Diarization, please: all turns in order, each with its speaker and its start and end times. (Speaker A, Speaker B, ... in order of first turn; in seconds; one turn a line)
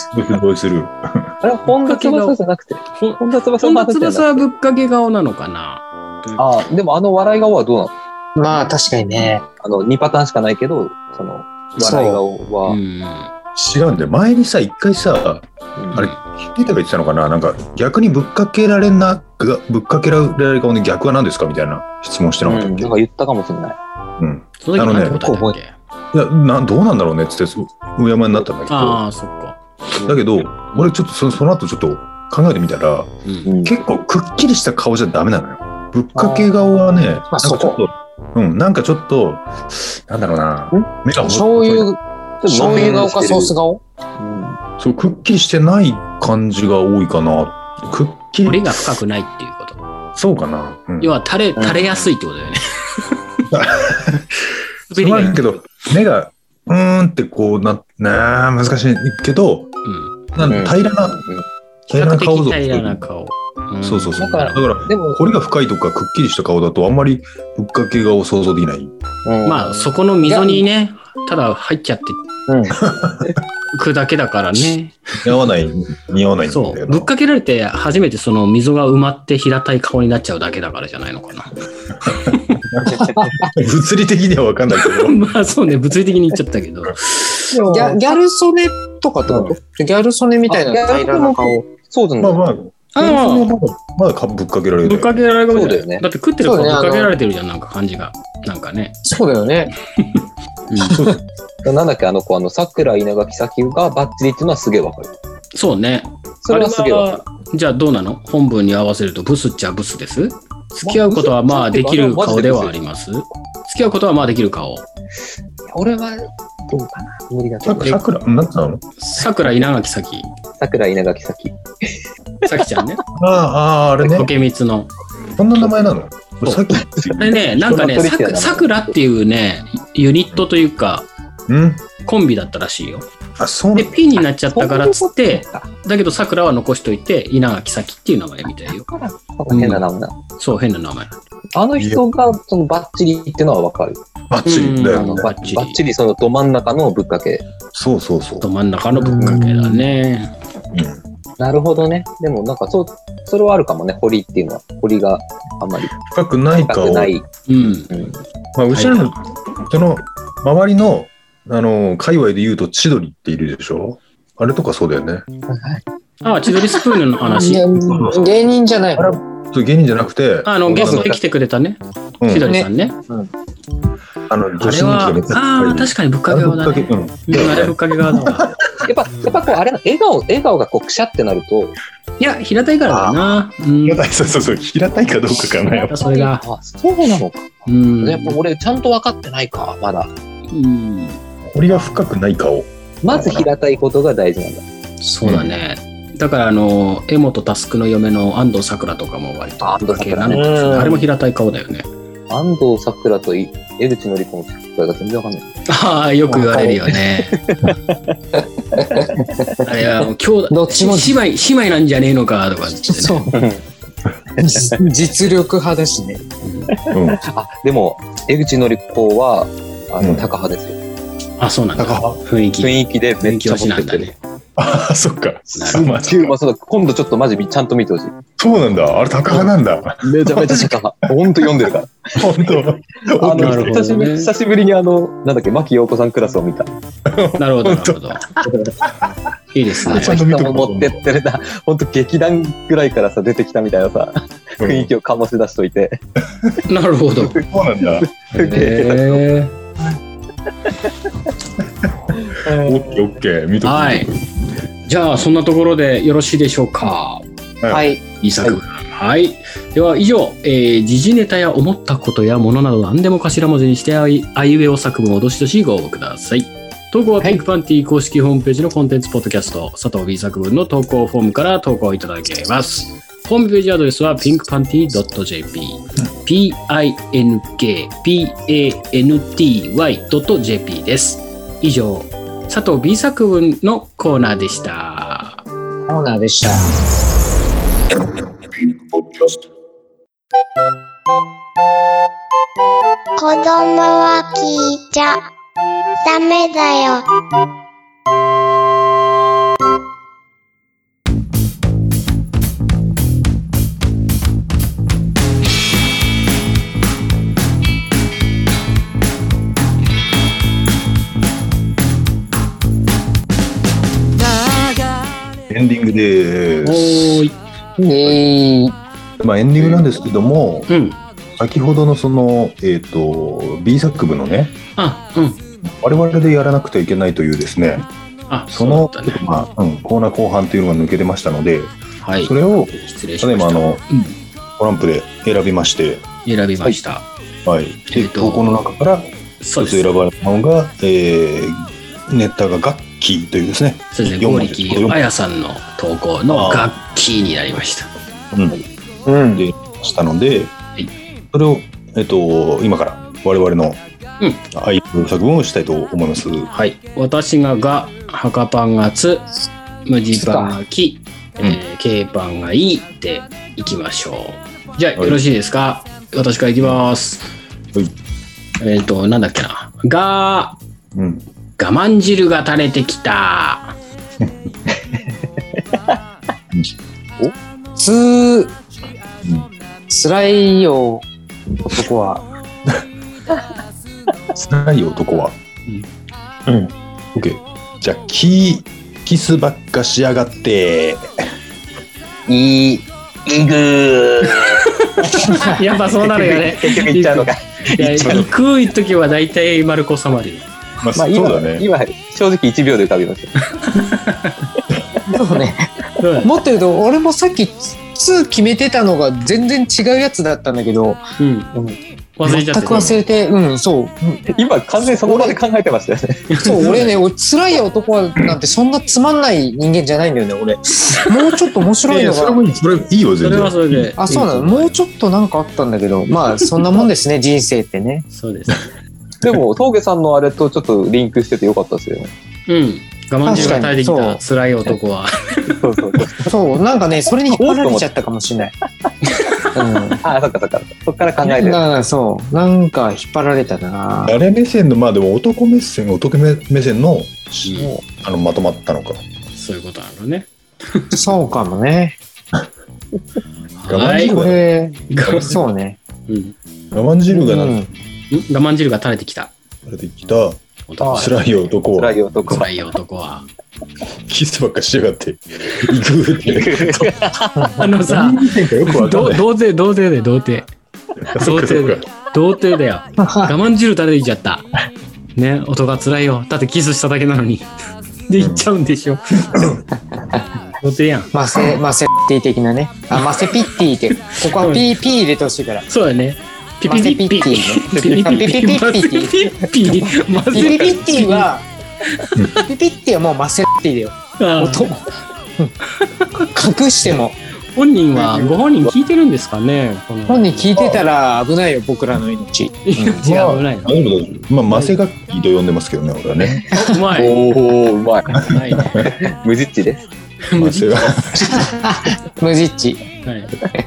Speaker A: 0.1-1.3
Speaker B: 1.4-4.5
Speaker C: 1.8-2.4
Speaker C: 3.0-6.5
Speaker B: 6.4-7.9
Speaker D: 8.4-9.4
Speaker B: 9.6-12.8
Speaker D: 11.8-12.2
Speaker C: 12.7-13.3
Speaker A: 13.6-22.9
Speaker B: 15.8-16.0
Speaker C: 15.9-16.2
Speaker B: 22.4-23.8
Speaker A: 24.2-25.2
Speaker C: 24.6-25.8
Speaker D: 25.1-25.6
Speaker A: 26.1-29.0
Speaker C: 28.7-29.6
Speaker A: 30.0-33.1
Speaker B: 33.5-33.7
Speaker A: 33.6-41.9
Speaker B: 36.2-36.5
Speaker D: 37.3-37.8
Speaker D: 41.2-43.8
Speaker B: 42.4-43.5
Speaker B: 44.2-44.6
Speaker A: 44.8-48.9
Speaker C: 48.5-49.8
Speaker A: 50.2-51.1
Speaker C: 51.0-53.0
Speaker B: 51.6-51.9
Speaker A: 53.5-54.3
Speaker C: 54.9-55.5
Speaker A: 54.9-59.7
Speaker C: 59.9-60.1
Speaker A: 60.3-61.2
Speaker B: 60.4-61.5
Speaker A: 61.9-63.1
Speaker C: 61.9-64.6
Speaker A: 63.8-68.9
Speaker B: 64.2-65.3
Speaker B: 69.3-69.9
Speaker C: 69.5-72.2
Speaker D: 70.3-70.5
Speaker A: 72.8-73.3
Speaker C: 73.7-75.0
Speaker A: 75.2-77.1
Speaker C: 76.5-81.6
Speaker A: 82.0-85.2
Speaker C: 82.1-82.5
Speaker B: 82.9-83.2
Speaker D: 83.1-83.5
Speaker C: 84.8-87.5
Speaker B: 87.5-88.1
Speaker D: 87.7-91.6
Speaker B: 89.3-89.5
Speaker B: 90.5-92.4
Speaker A: 92.2-95.2
Speaker C: 93.0-93.5
Speaker C: 94.8-99.0
Speaker B: 95.5-96.0
Speaker D: 96.4-97.1
Speaker D: 99.0-99.7
Speaker C: 100.0-101.0
Speaker A: 100.9-101.2
Speaker B: 101.6-105.1
Speaker C: 105.5-114.8
Speaker B: 106.4-107.2
Speaker B: 110.8-112.8
Speaker B: 115.7-118.0
Speaker A: 117.7-118.8
Speaker C: 119.0-120.3
Speaker B: 120.6-121.6
Speaker C: 122.5-123.0
Speaker A: 123.2-124.3
Speaker C: 124.0-124.9
Speaker A: 125.4-127.4
Speaker B: 127.0-128.9
Speaker C: 127.2-131.1
Speaker A: 131.5-131.8
Speaker C: 132.1-133.1
Speaker A: 133.4-134.0
Speaker C: 133.8-138.9
Speaker B: 134.5-135.7
Speaker B: 138.7-140.2
Speaker C: 139.5-139.8
Speaker C: 140.4-141.2
Speaker B: 141.5-144.0
Speaker A: 141.8-142.0
Speaker A: 144.3-145.2
Speaker C: 144.4-145.8
Speaker B: 144.9-147.4
Speaker A: 147.7-148.5
Speaker C: 148.4-150.3
Speaker D: 148.9-149.8
Speaker A: 150.7-151.0
Speaker B: 151.4-155.9
Speaker A: 156.1-157.1
Speaker B: 156.6-157.3
Speaker C: 157.5-157.9
Speaker B: 157.9-158.2
Speaker A: 158.6-159.2
Speaker C: 158.7-159.1
Speaker A: 159.7-165.2
Speaker B: 165.5-165.8
Speaker C: 166.2-167.7
Speaker D: 167.3-169.2
Speaker A: 167.8-168.3
Speaker A: 168.9-171.1
Speaker C: 170.4-173.0
Speaker D: 170.7-171.1
Speaker A: 172.2-172.5
Speaker D: 172.5-173.3
Speaker A: 174.3-178.9
Speaker C: 174.6-178.5
Speaker B: 178.8-181.8
Speaker C: 182.2-184.0
Speaker A: 183.8-186.1
Speaker C: 185.9-186.4
Speaker B: 185.9-190.1
Speaker C: 187.7-188.4
Speaker C: 190.5-191.2
Speaker A: 191.5-193.5
Speaker B: 193.0-194.7
Speaker C: 195.0-201.9
Speaker A: 195.2-195.6
Speaker B: 199.6-201.0
Speaker D: 200.3-201.0
Speaker B: 202.3-205.5
Speaker C: 205.7-207.4
Speaker D: 206.3-206.8
Speaker B: 207.3-208.0
Speaker B: 208.8-209.2
Speaker D: 208.9-209.1
Speaker C: 209.6-213.3
Speaker D: 210.5-211.2
Speaker D: 212.8-213.4
Speaker B: 213.3-213.6
Speaker D: 214.4-216.2
Speaker C: 216.4-216.7
Speaker B: 216.8-220.8
Speaker A: 216.9-217.2
Speaker A: 220.0-220.3
Speaker C: 221.4-224.2
Speaker A: 221.8-222.2
Speaker B: 222.6-224.1
Speaker A: 224.6-226.4
Speaker C: 225.6-225.9
Speaker B: 225.6-228.2
Speaker A: 228.4-230.8
Speaker B: 230.0-232.3
Speaker A: 232.2-233.8
Speaker B: 233.2-236.7
Speaker C: 233.3-234.3
Speaker A: 237.1-239.1
Speaker C: 237.4-238.3
Speaker C: 239.5-240.2
Speaker A: 239.8-241.0
Speaker B: 239.9-246.0
Speaker A: 244.6-244.9
Speaker C: 246.7-247.4
Speaker B: 247.3-249.2
Speaker A: 247.4-248.1
Speaker C: 248.4-249.5
Speaker A: 251.8-254.2
Speaker D: 252.5-252.8
Speaker C: 253.6-254.1
Speaker C: 254.9-257.2
Speaker A: 257.6-257.9
Speaker D: 257.7-258.0
Speaker C: 258.2-285.4
Speaker D: 285.9-286.7
Speaker A: 288.5-289.4
Speaker E: 293.2-295.2
Speaker E: 296.0-297.1
Speaker A: 315.5-317.2
Speaker C: 316.6-317.4
Speaker D: 317.8-318.8
Speaker A: 319.2-320.7
Speaker C: 320.7-321.0
Speaker A: 321.4-324.6
Speaker C: 324.8-325.4
Speaker A: 325.6-327.9
Speaker C: 328.3-329.2
Speaker A: 328.5-333.8
Speaker C: 332.0-334.2
Speaker A: 334.6-336.0
Speaker C: 336.2-337.1
Speaker A: 337.4-345.0
Speaker C: 337.9-338.6
Speaker C: 339.4-339.9
Speaker C: 343.9-347.9
Speaker A: 346.3-346.7
Speaker A: 348.3-348.6
Speaker D: 349.1-349.5
Speaker A: 349.3-350.6
Speaker A: 351.3-353.8
Speaker A: 354.5-356.5
Speaker C: 356.5-359.3
Speaker C: 359.9-367.3
Speaker D: 360.1-360.6
Speaker C: 368.6-370.6
Speaker A: 370.9-371.2
Speaker C: 371.6-373.8
Speaker D: 377.8-378.6
Speaker D: 379.9-381.1
Speaker D: 381.6-382.2
Speaker A: 384.4-385.4
Speaker A: 387.1-391.1
Speaker B: 392.3-394.6
Speaker C: 394.4-400.5
Speaker D: 395.3-395.6
Speaker B: 396.0-398.3
Speaker A: 398.0-398.3
Speaker A: 400.8-401.6
Speaker B: 401.0-403.3
Speaker C: 403.6-404.4
Speaker D: 405.1-405.7
Speaker C: 406.0-406.3
Speaker D: 406.2-411.0
Speaker C: 411.2-411.5
Speaker C: 412.2-413.0
Speaker D: 412.3-414.3
Speaker A: 412.7-413.0
Speaker B: 414.3-416.4
Speaker D: 414.8-415.4
Speaker C: 416.3-416.9
Speaker D: 416.4-422.4
Speaker A: 421.9-423.9
Speaker C: 423.2-424.8
Speaker D: 424.0-428.1
Speaker C: 428.1-428.7
Speaker B: 429.2-432.1
Speaker C: 432.5-435.6
Speaker D: 433.2-434.2
Speaker B: 433.3-433.6
Speaker B: 435.5-436.4
Speaker D: 436.3-438.5
Speaker B: 437.2-437.9
Speaker D: 439.6-440.0
Speaker B: 440.0-441.6
Speaker D: 441.2-444.2
Speaker A: 444.1-449.0
Speaker C: 447.4-447.8
Speaker C: 449.4-450.9
Speaker D: 450.9-452.0
Speaker C: 453.6-454.2
Speaker A: 453.7-454.4
Speaker D: 453.9-455.8
Speaker C: 454.9-455.4
Speaker A: 455.0-455.4
Speaker C: 456.1-456.4
Speaker A: 456.7-457.6
Speaker D: 457.1-457.7
Speaker C: 458.1-459.3
Speaker A: 459.7-462.0
Speaker C: 460.7-461.2
Speaker B: 460.8-461.2
Speaker B: 461.7-462.6
Speaker C: 462.2-463.3
Speaker A: 464.1-466.9
Speaker B: 466.2-467.5
Speaker D: 467.4-467.6
Speaker C: 467.6-470.5
Speaker A: 467.9-469.2
Speaker A: 471.0-471.9
Speaker C: 471.2-474.5
Speaker D: 473.0-473.3
Speaker C: 475.2-477.5
Speaker C: 478.1-479.4
Speaker A: 478.2-478.5
Speaker A: 479.3-479.6
Speaker C: 480.6-481.1
Speaker D: 481.1-485.7
Speaker C: 484.3-484.7
Speaker C: 485.7-491.3
Speaker D: 486.7-489.3
Speaker B: 487.7-488.2
Speaker D: 490.3-491.5
Speaker B: 490.4-490.7
Speaker C: 491.9-492.1
Speaker D: 492.4-494.9
Speaker C: 494.2-494.7
Speaker C: 495.8-496.3
Speaker D: 496.3-497.2
Speaker C: 497.6-500.8
Speaker B: 498.0-498.3
Speaker D: 500.1-502.6
Speaker A: 500.6-500.8
Speaker C: 502.7-503.8
Speaker A: 502.8-506.4
Speaker C: 506.6-507.2
Speaker B: 507.0-508.3
Speaker A: 508.2-508.9
Speaker C: 508.2-508.9
Speaker B: 508.8-509.9
Speaker C: 510.3-511.3
Speaker A: 510.4-511.5
Speaker D: 511.3-512.8
Speaker C: 513.0-513.3